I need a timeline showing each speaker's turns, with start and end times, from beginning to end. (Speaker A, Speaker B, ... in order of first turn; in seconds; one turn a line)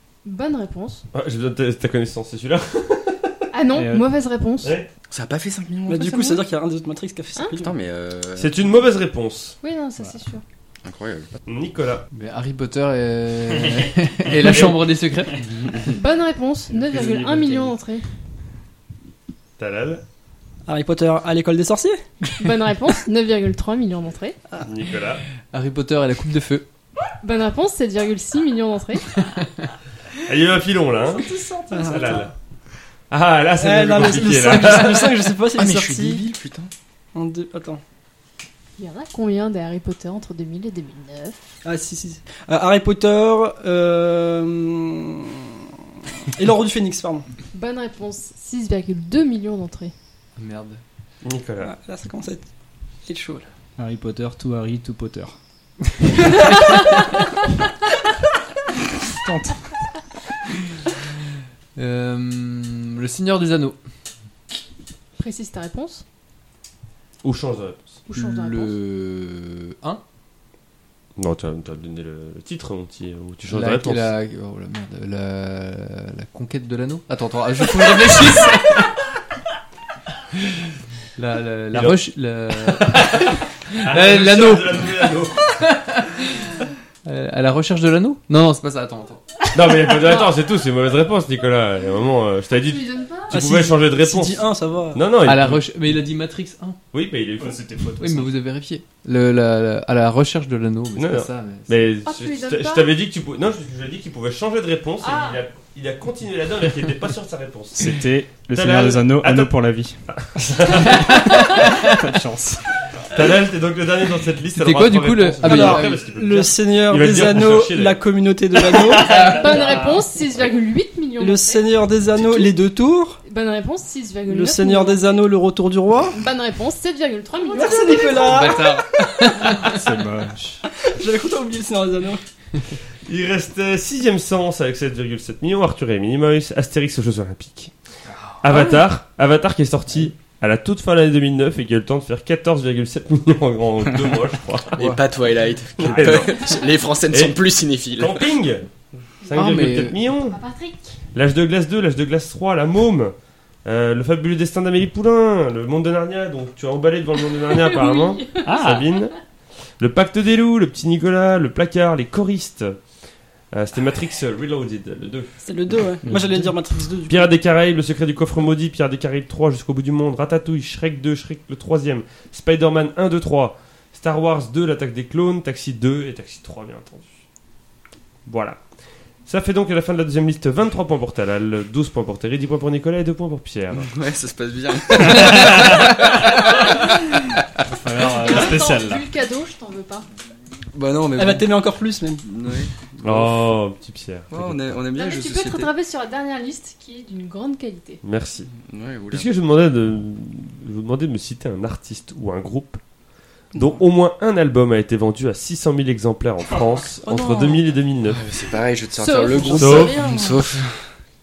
Speaker A: 0.2-1.1
Speaker B: 1.1-3.3
Speaker A: 3.5-4.8
Speaker C: 3.7-4.1
Speaker B: 4.6-4.9
Speaker D: 5.1-6.4
Speaker E: 5.9-7.7
Speaker D: 7.6-8.6
Speaker B: 8.4-9.6
Speaker A: 9.6-10.4
Speaker D: 10.8-11.3
Speaker B: 11.5-12.1
Speaker F: 12.1-15.8
Speaker C: 13.5-14.8
Speaker B: 14.4-14.8
Speaker C: 15.4-15.8
Speaker A: 15.9-18.1
Speaker C: 16.7-17.7
Speaker B: 19.6-20.0
Speaker E: 20.7-22.0
Speaker A: 22.4-24.4
Speaker B: 24.6-25.2
Speaker F: 25.5-26.7
Speaker A: 27.2-29.1
Speaker B: 30.2-32.3
Speaker E: 31.1-32.3
Speaker B: 33.1-35.2
Speaker E: 33.6-36.2
Speaker D: 35.5-36.7
Speaker E: 37.1-37.8
Speaker A: 38.8-41.4
Speaker E: 41.6-45.5
Speaker E: 46.3-47.3
Speaker A: 47.5-49.9
Speaker F: 50.4-50.8
Speaker B: 51.2-51.8
Speaker E: 51.6-52.5
Speaker E: 53.1-53.5
Speaker C: 53.8-55.4
Speaker C: 59.1-59.6
Speaker F: 61.8-63.8
Speaker A: 65.2-66.0
Speaker B: 67.2-68.0
Speaker A: 68.1-68.8
Speaker F: 68.1-70.0
Speaker B: 71.2-74.1
Speaker F: 73.5-78.9
Speaker F: 81.2-86.4
Speaker B: 81.7-82.0
Speaker B: 82.7-83.2
Speaker B: 83.8-85.6
Speaker F: 87.0-89.2
Speaker B: 89.5-95.7
Speaker A: 92.7-93.3
Speaker E: 93.3-95.0
Speaker F: 95.2-96.8
Speaker B: 96.9-97.6
Speaker C: 97.4-98.3
Speaker F: 98.0-101.9
Speaker B: 101.0-107.9
Speaker A: 102.0-102.9
Speaker A: 105.0-105.4
Speaker C: 107.8-110.0
Speaker B: 108.5-109.5
Speaker B: 110.1-111.4
Speaker C: 110.6-112.7
Speaker B: 113.1-118.0
Speaker F: 114.6-116.1
Speaker E: 115.4-119.2
Speaker F: 119.0-119.8
Speaker A: 119.0-121.6
Speaker C: 119.2-119.9
Speaker E: 121.2-123.2
Speaker A: 123.2-125.1
Speaker E: 124.3-126.2
Speaker A: 126.1-128.7
Speaker E: 127.5-129.7
Speaker F: 128.1-129.5
Speaker C: 129.6-130.6
Speaker E: 130.8-132.2
Speaker B: 133.1-137.7
Speaker B: 138.4-145.0
Speaker D: 144.7-148.2
Speaker B: 145.8-146.6
Speaker B: 147.1-147.4
Speaker B: 147.9-148.7
Speaker B: 149.2-150.4
Speaker F: 149.3-150.0
Speaker A: 150.3-150.9
Speaker B: 151.2-153.1
Speaker B: 153.7-159.1
Speaker A: 157.5-158.6
Speaker C: 158.4-158.9
Speaker B: 159.8-162.8
Speaker B: 163.5-165.4
Speaker E: 165.4-167.3
Speaker C: 166.1-166.6
Speaker B: 167.1-177.2
Speaker B: 178.3-178.6
Speaker B: 179.3-183.9
Speaker D: 183.9-187.5
Speaker C: 184.9-186.1
Speaker C: 187.7-189.1
Speaker A: 188.1-190.1
Speaker D: 190.7-191.6
Speaker E: 191.2-192.2
Speaker D: 192.2-193.6
Speaker B: 193.0-194.8
Speaker D: 194.3-195.7
Speaker A: 194.9-198.0
Speaker B: 198.0-198.5
Speaker D: 198.6-199.3
Speaker B: 199.1-202.8
Speaker B: 203.6-208.2
Speaker A: 207.1-207.6
Speaker D: 208.1-210.9
Speaker A: 209.0-210.4
Speaker B: 209.5-210.0